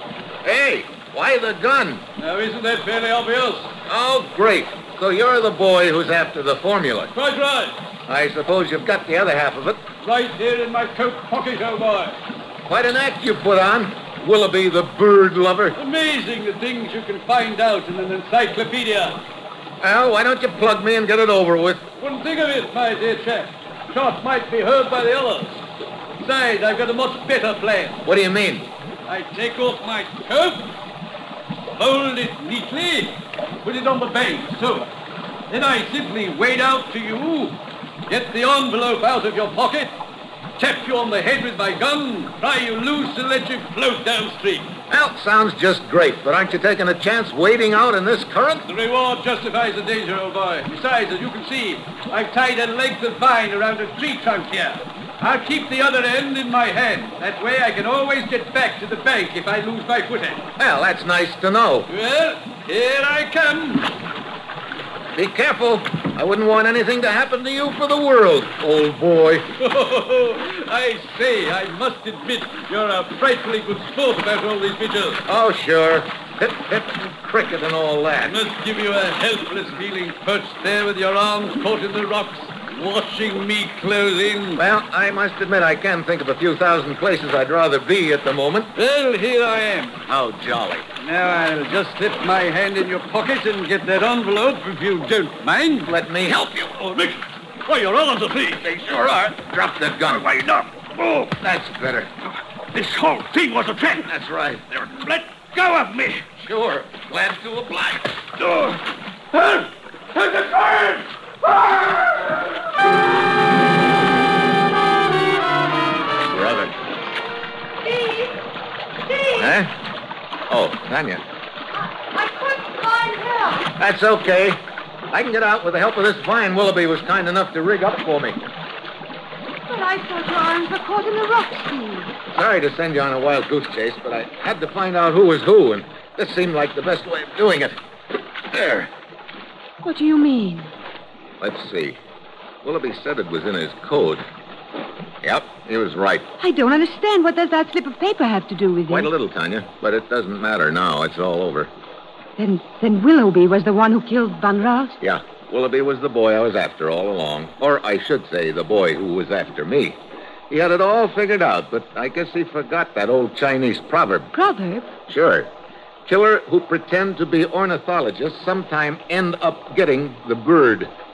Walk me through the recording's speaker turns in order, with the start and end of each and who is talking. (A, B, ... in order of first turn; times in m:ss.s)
0:00.4-0:02.0 A
0:02.2-0:03.7 B
0:03.9-0:07.1 A
0:07.1-0:07.8 B
0:08.1-0:09.8 A
0:10.0-0:12.2 B
0:12.7-0:15.8 A
0:15.8-0:19.2 B
0:19.8-0:21.8 A
0:22.0-0:25.6 B
0:26.2-0:28.0 B
0:28.0-0:28.7 A
0:29.1-0:30.7 B
0:31.8-0:34.9 B
0:35.5-0:40.0 B
0:40.6-0:44.7 B
0:44.9-0:48.7 A
0:48.7-1:00.5 B
1:00.6-1:01.9 A
1:01.9-1:03.9 B
1:05.1-1:09.5 A
1:09.6-1:15.2 B
1:15.2-1:18.4 A
1:18.2-1:24.6 B
1:24.6-1:28.7 A
1:28.8-1:30.0 B
1:30.0-1:30.9 A
1:31.0-1:35.9 B
1:35.8-1:36.8 A
1:36.8-1:38.7 B
1:38.6-1:40.3 A
1:40.1-1:41.4 B
1:41.3-1:42.1 A
1:42.7-1:44.1 B
1:44.0-1:44.6 A
1:44.7-1:46.3 B
1:46.3-1:48.2 A
1:48.4-1:48.8 B
1:49.3-1:51.0 B
1:56.2-1:56.8 A
1:57.8-1:58.4 C
1:59.1-1:59.5 C
1:59.4-1:59.7 A
2:00.5-2:01.2 A
2:01.8-2:03.7 C
2:03.8-2:08.4 A
2:09.7-2:12.1 C
2:12.3-2:17.8 A
2:18.5-2:18.9 A
2:19.8-2:20.7 C
2:21.4-2:22.0 A
2:22.6-2:24.3 A
2:25.2-2:26.3 A
2:26.4-2:29.1 C
2:28.9-2:31.7 A
2:32.4-2:35.0 C
2:35.0-2:44.3 A
2:44.3-2:44.9 C
2:45.1-2:45.5 A
2:46.1-2:50.9 A